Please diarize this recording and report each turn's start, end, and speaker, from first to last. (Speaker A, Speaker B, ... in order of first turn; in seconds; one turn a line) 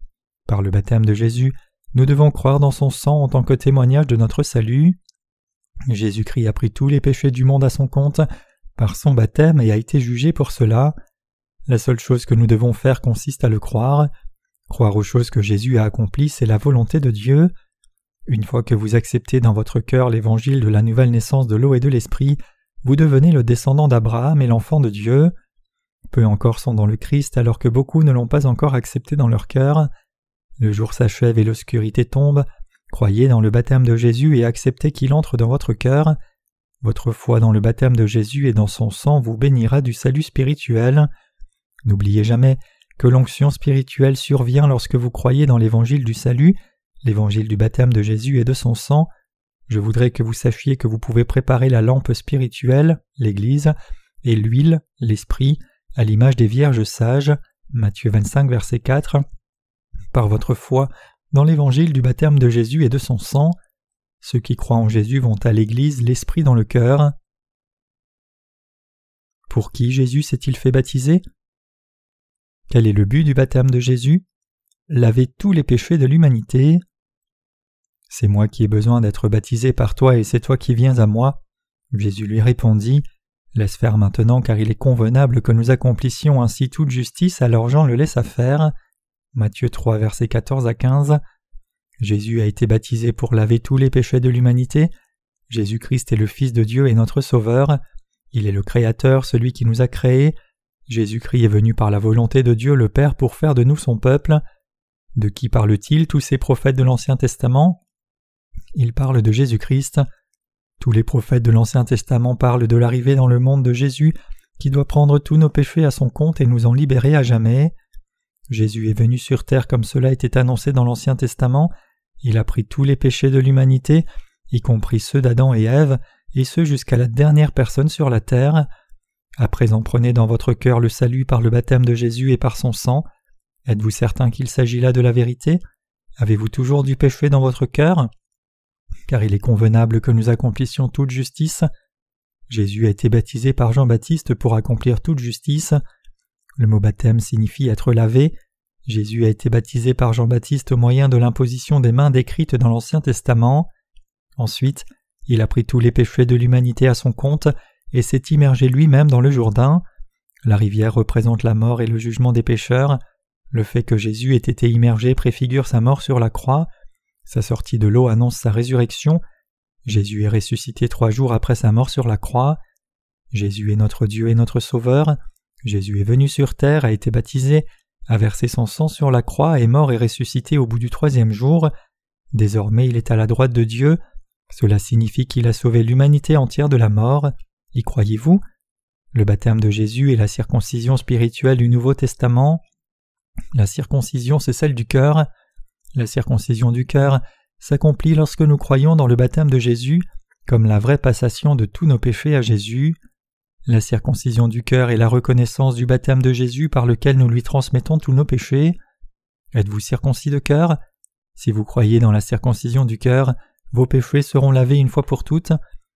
Speaker A: 0.5-5.0
Speaker A: 5.9-8.2
Speaker A: 8.8-10.9
Speaker A: 11.7-14.1
Speaker A: 14.7-17.5
Speaker A: 18.3-25.3
Speaker A: 26.1-29.9
Speaker A: 30.6-36.1
Speaker A: 36.8-41.1
Speaker A: 41.9-49.1
Speaker A: 49.7-59.2
Speaker A: 60.1-63.5
Speaker A: 64.2-67.1
Speaker A: 69.5-71.2
Speaker A: 72.7-74.2
Speaker A: 74.9-76.8
Speaker A: 78.1-81.4
Speaker A: 81.9-83.0
Speaker A: 83.5-88.7
Speaker A: 89.3-91.2
Speaker A: 92.0-94.9
Speaker A: 95.5-97.8
Speaker A: 98.3-100.3
Speaker A: 100.9-104.4
Speaker A: 105.2-107.8
Speaker A: 108.7-110.0
Speaker A: 110.8-117.7
Speaker A: 118.5-121.7
Speaker A: 122.2-128.7
Speaker A: 129.4-133.1
Speaker A: 133.7-135.6
Speaker A: 136.2-138.1
Speaker A: 139.1-141.7
Speaker A: 142.5-145.8
Speaker A: 146.6-148.3
Speaker A: 148.9-153.7
Speaker A: 154.4-159.8
Speaker A: 160.4-163.0
Speaker A: 163.5-166.7
Speaker A: 167.3-169.2
Speaker A: 169.8-172.6
Speaker A: 173.3-181.7
Speaker A: 182.3-184.0
Speaker A: 184.5-188.4
Speaker A: 189.1-192.6
Speaker A: 193.5-195.3
Speaker A: 195.9-203.0
Speaker A: 203.7-208.8
Speaker A: 209.5-210.8
Speaker A: 211.3-215.5